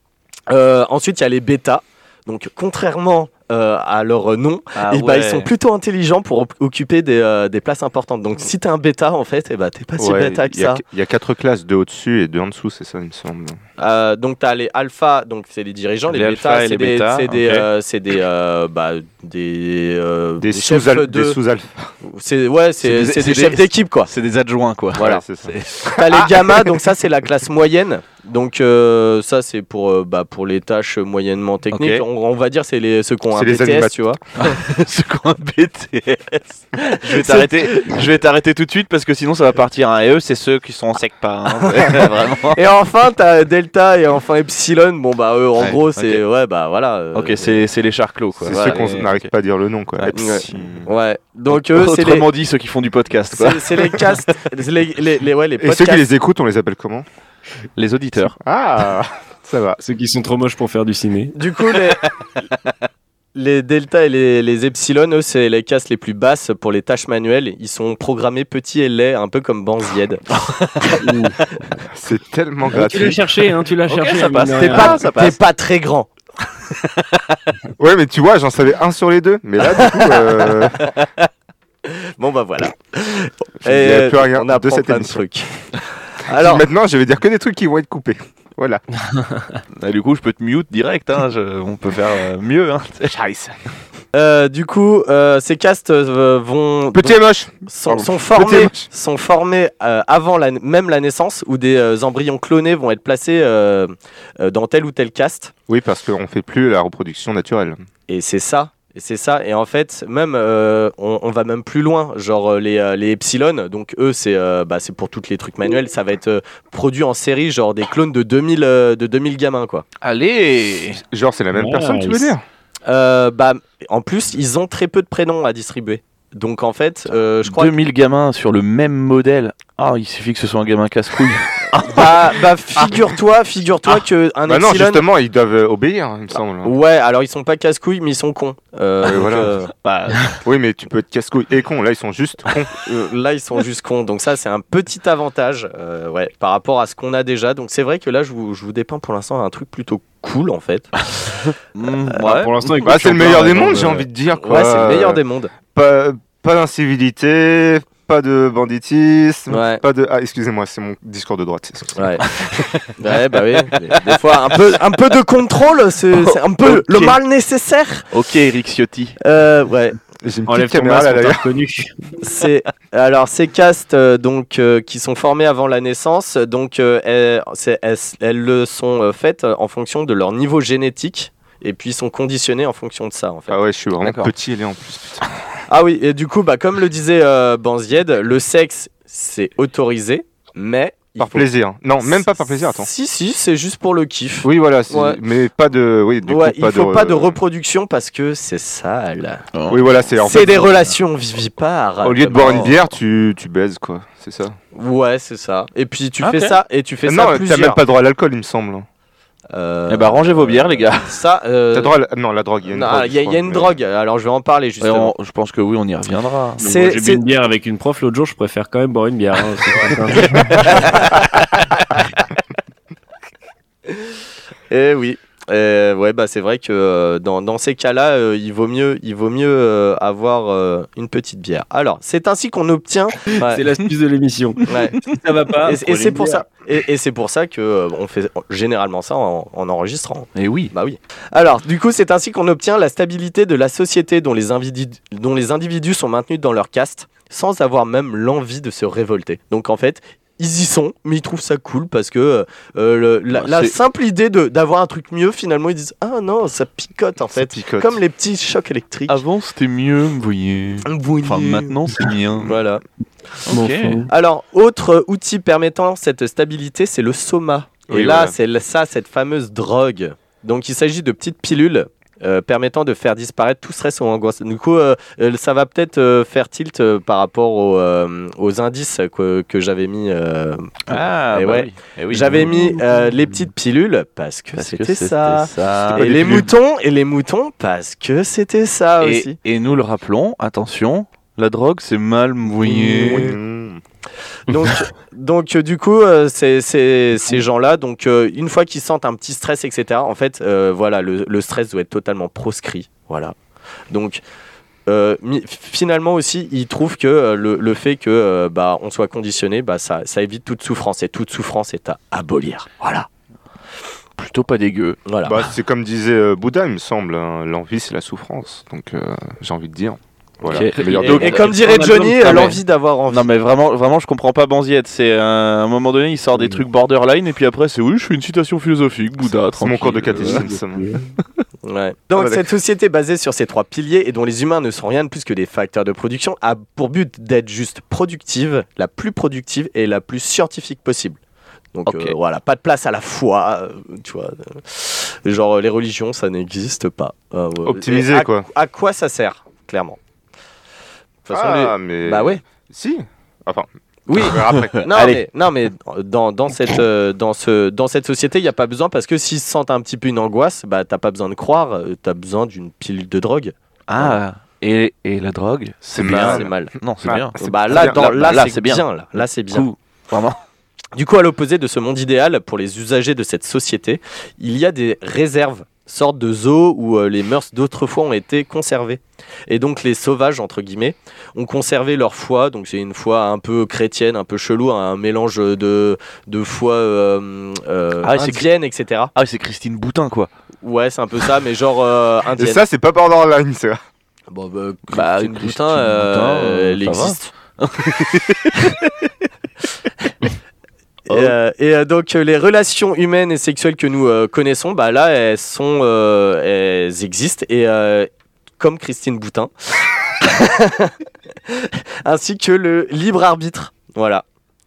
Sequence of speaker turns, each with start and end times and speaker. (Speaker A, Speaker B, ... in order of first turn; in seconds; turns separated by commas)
Speaker A: 0.5-10.8, Speaker B: 4.8-5.5, Speaker C: 10.0-13.6, Speaker A: 13.8-21.4, Speaker B: 16.1-17.7, Speaker C: 20.4-21.9, Speaker A: 22.0-24.1, Speaker B: 22.8-25.8, Speaker A: 25.0-25.2, Speaker C: 25.0-26.8, Speaker A: 25.9-34.6, Speaker B: 31.7-32.0, Speaker C: 33.3-34.0, Speaker B: 34.4-42.6, Speaker A: 36.8-38.0, Speaker A: 41.5-47.6, Speaker B: 45.6-46.2, Speaker B: 47.1-49.3, Speaker A: 48.5-49.0, Speaker C: 48.5-50.9, Speaker B: 50.0-50.6, Speaker A: 50.1-52.3, Speaker B: 51.5-54.2, Speaker A: 53.3-56.0, Speaker C: 55.6-57.1, Speaker B: 57.8-58.4, Speaker C: 58.4-59.8, Speaker D: 59.8-61.4, Speaker A: 61.4-62.1, Speaker A: 63.4-71.0, Speaker D: 71.0-71.4, Speaker C: 71.9-73.3, Speaker D: 72.7-75.0, Speaker B: 73.9-75.4, Speaker A: 74.7-76.1, Speaker C: 77.8-80.9, Speaker A: 79.7-81.0, Speaker A: 81.8-85.5, Speaker C: 83.6-85.3, Speaker A: 86.2-86.6, Speaker C: 86.3-88.8, Speaker B: 89.7-93.1, Speaker C: 93.1-93.5, Speaker A: 94.1-105.5, Speaker C: 96.9-98.9, Speaker C: 105.7-107.8, Speaker A: 108.1-119.8, Speaker B: 120.0-121.0, Speaker C: 121.0-122.4, Speaker D: 121.5-122.3, Speaker A: 122.9-127.7, Speaker B: 127.5-132.9, Speaker A: 131.8-135.0, Speaker C: 134.5-136.8, Speaker A: 136.6-139.7, Speaker C: 139.0-139.5, Speaker B: 139.8-140.4, Speaker C: 140.4-142.7, Speaker A: 142.8-151.5, Speaker B: 151.8-152.8, Speaker A: 152.1-152.5, Speaker D: 152.3-154.1, Speaker C: 152.8-162.4, Speaker A: 154.4-155.5, Speaker A: 159.5-159.8, Speaker A: 162.0-162.2, Speaker B: 162.5-162.9, Speaker A: 163.0-168.1, Speaker B: 163.6-164.2, Speaker B: 166.1-167.2, Speaker B: 168.1-169.2, Speaker A: 169.2-170.0, Speaker C: 170.2-171.4, Speaker D: 170.5-172.0, Speaker A: 172.2-183.6, Speaker C: 183.5-185.3, Speaker B: 184.0-184.3, Speaker A: 185.7-191.5, Speaker C: 191.2-192.9, Speaker A: 192.0-195.2, Speaker C: 194.4-197.4, Speaker A: 196.2-199.4, Speaker B: 199.5-199.8, Speaker C: 199.7-200.9, Speaker A: 200.2-202.8, Speaker C: 202.0-204.6, Speaker B: 202.3-202.8, Speaker A: 204.7-207.8, Speaker B: 206.2-206.6, Speaker C: 207.0-208.9, Speaker A: 209.5-211.9, Speaker B: 209.9-211.2, Speaker C: 211.7-213.8, Speaker A: 212.7-215.1, Speaker B: 214.8-216.6, Speaker D: 216.6-220.9, Speaker A: 216.6-217.2, Speaker A: 220.5-222.0, Speaker A: 224.7-233.6, Speaker D: 233.3-236.4, Speaker A: 234.7-235.1, Speaker A: 235.6-259.2, Speaker B: 240.4-240.7, Speaker B: 253.3-253.8, Speaker C: 257.3-258.0, Speaker B: 259.1-262.6, Speaker A: 260.9-261.8, Speaker A: 262.4-262.8, Speaker B: 263.5-264.0, Speaker D: 263.5-264.1, Speaker A: 264.1-289.4, Speaker C: 267.9-268.4, Speaker B: 280.9-282.8, Speaker B: 284.6-286.5, Speaker C: 285.9-286.5, Speaker B: 289.0-293.3, Speaker A: 292.6-293.3, Speaker C: 293.0-293.8, Speaker A: 294.5-303.4, Speaker A: 303.9-304.2, Speaker A: 304.9-313.1, Speaker B: 314.2-315.0, Speaker A: 315.1-315.4, Speaker C: 315.2-321.5, Speaker B: 320.5-330.5, Speaker D: 320.8-322.4, Speaker A: 321.0-323.3, Speaker C: 329.5-331.0, Speaker D: 330.4-331.0, Speaker A: 331.6-341.2, Speaker C: 332.2-332.5, Speaker A: 341.7-350.0, Speaker B: 341.9-342.1, Speaker C: 347.6-348.5, Speaker A: 351.3-352.4, Speaker C: 351.3-354.9, Speaker A: 354.1-364.2, Speaker B: 354.2-355.2, Speaker B: 363.9-370.4, Speaker C: 366.0-366.5, Speaker A: 366.0-366.7, Speaker C: 367.0-368.1, Speaker A: 367.4-369.7, Speaker A: 370.9-389.1, Speaker B: 388.0-388.5, Speaker B: 389.1-390.3, Speaker A: 390.6-392.6, Speaker C: 392.4-393.8, Speaker A: 394.3-397.3, Speaker B: 394.9-399.1, Speaker A: 401.1-409.5, Speaker B: 401.1-401.4, Speaker A: 410.2-410.9, Speaker A: 411.5-414.2